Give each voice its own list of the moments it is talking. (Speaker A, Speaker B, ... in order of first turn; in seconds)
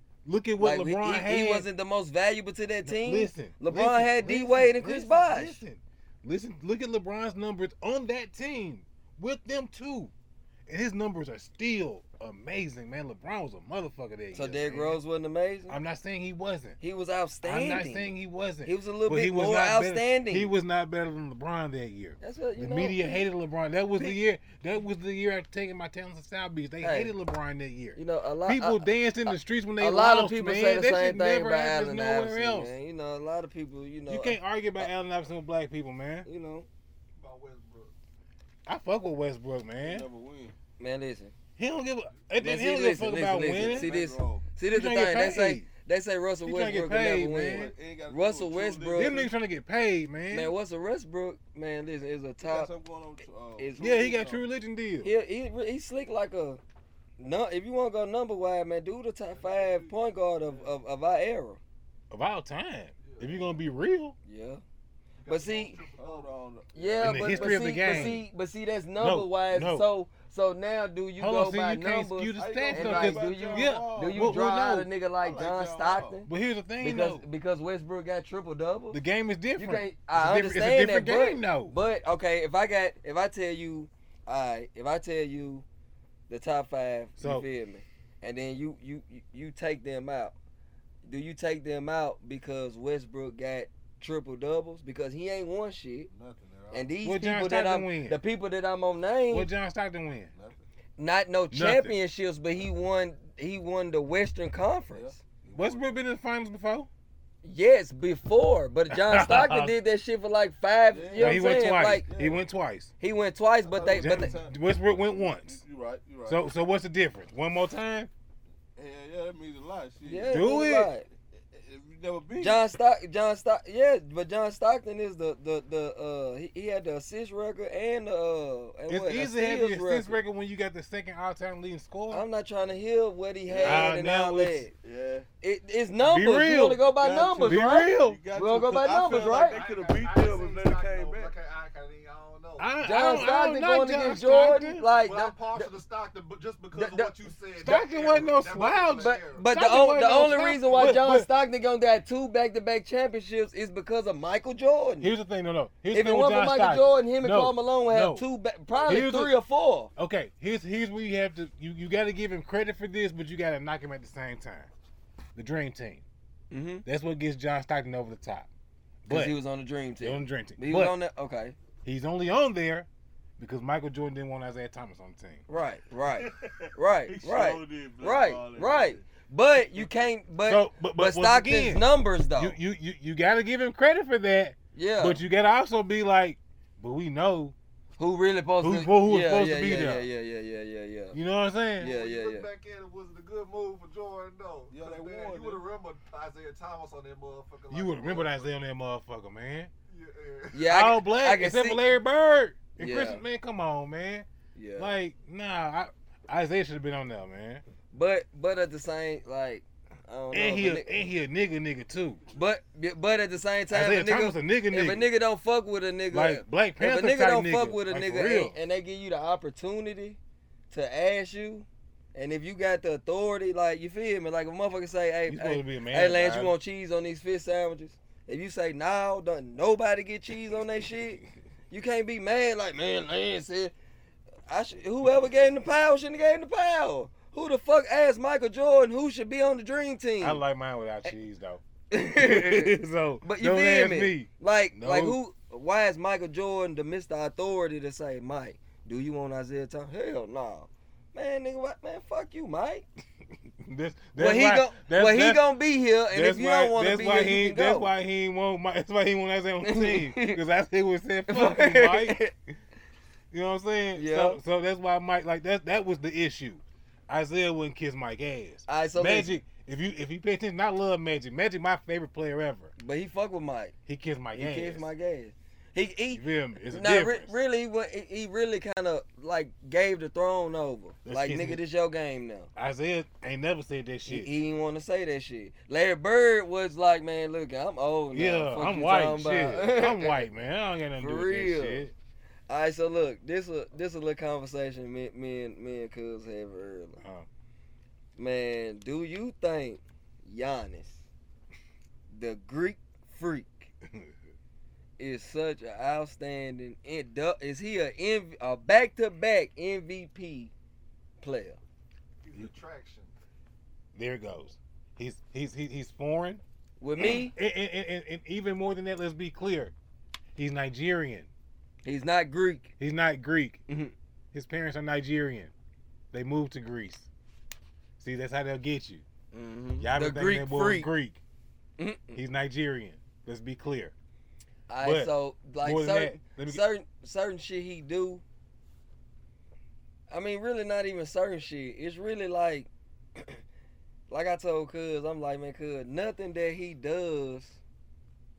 Speaker A: 0.2-1.7, 2.8-10.1, 10.7-15.0, 15.7-16.8, 17.4-32.8, 34.1-36.3, 38.7-40.1, 41.6-43.9, 44.7-45.7, 46.4-47.7, 49.0-50.5, 53.8-55.1, 62.1-64.1, 67.0-68.3, 69.0-69.9, 71.2-74.9, 76.3-77.2, 78.9-81.7, 87.2-87.5, 97.0-98.2, 99.3-100.3, 101.5-101.9, 105.5-106.9, 108.9-109.8, 111.2-112.9, 114.0-115.6, 116.3-118.1, 120.3-120.9, 128.9-132.2, 133.6-134.7, 136.0-136.8, 137.4-138.2, 142.6-144.9, 147.6-151.3, 155.0-158.2, 158.8-159.3, 159.9-164.7, 165.3-166.0, 166.8-168.5, 169.1-169.4, 170.0-171.0, 171.8-172.9, 173.4-175.4, 180.4-181.9, 182.4-187.6, 188.6-190.1, 191.1-191.9, 197.7-199.7, 200.6-207.6, 210.3-212.2, 213.7-215.1, 216.1-218.6, 225.3-226.6, 240.2-241.6, 242.2-245.2, 253.6-255.4, 256.1-262.3, 263.3-272.7, 273.9-274.9, 276.1-277.4, 281.1-281.6, 282.6-284.3, 288.1-291.9, 297.0-297.3, 303.9-304.1, 313.9-316.4, 317.0-319.7, 320.4-321.3, 322.8-323.6, 324.3-325.5, 326.1-327.1, 328.0-329.0, 329.8-331.2, 332.1-333.9, 334.8-336.6
Speaker B: 0.6-5.6, 14.3-15.8, 16.8-18.1, 18.6-20.5, 22.2-23.2, 26.8-27.1, 27.9-34.9, 36.2-36.7, 40.8-41.3, 42.4-49.2, 50.3-52.7, 53.6-54.2, 55.0-56.6, 57.2-61.6, 64.2-64.6, 65.3-65.8, 66.7-76.3, 76.8-79.0, 79.6-85.6, 86.3-90.3, 91.0-96.1, 96.7-99.5, 101.0-105.2, 107.4-112.1, 113.0-114.3, 120.0-121.1, 122.4-130.2, 132.1-134.7, 135.4-139.6, 142.8-145.7, 146.7-147.1, 148.9-155.1, 155.9-159.9, 166.5-166.8, 169.1-171.6, 175.5-182.6, 184.8-185.2, 188.0-191.2, 191.8-192.5, 200.5-201.9, 202.8-203.2, 204.6-205.0, 207.9-210.9, 212.3-220.2, 220.7-233.7, 234.5-240.4, 241.9-252.8, 254.2-257.9, 259.6-260.4, 261.3-262.3, 263.9-264.4, 268.7-269.4, 272.8-273.7, 274.3-282.5, 284.1-290.2, 291.0-291.9, 292.5-297.0, 298.2-301.1, 302.1-303.7, 305.0-310.5, 311.2-311.6, 316.8-317.4, 321.8-322.7, 323.7-323.9, 329.3-330.9, 331.8-332.2, 334.7-338.2, 340.1-343.4, 344.1-347.6
Speaker C: 37.2-37.9, 59.3-59.9, 63.0-63.6, 65.2-66.3, 139.1-142.7, 144.9-149.5, 191.8-198.5, 199.9-200.7, 312.2-313.1
Speaker D: 39.8-40.5, 43.4-44.5, 47.5-49.3, 52.4-54.4, 66.0-68.1, 72.4-74.5, 75.2-76.2, 96.1-97.0, 100.3-100.6, 104.9-106.0, 110.9-112.4, 113.6-116.5, 118.8-120.5, 121.5-122.6, 133.5-133.9, 134.8-135.3, 136.9-141.4, 176.1-180.0, 194.7-195.6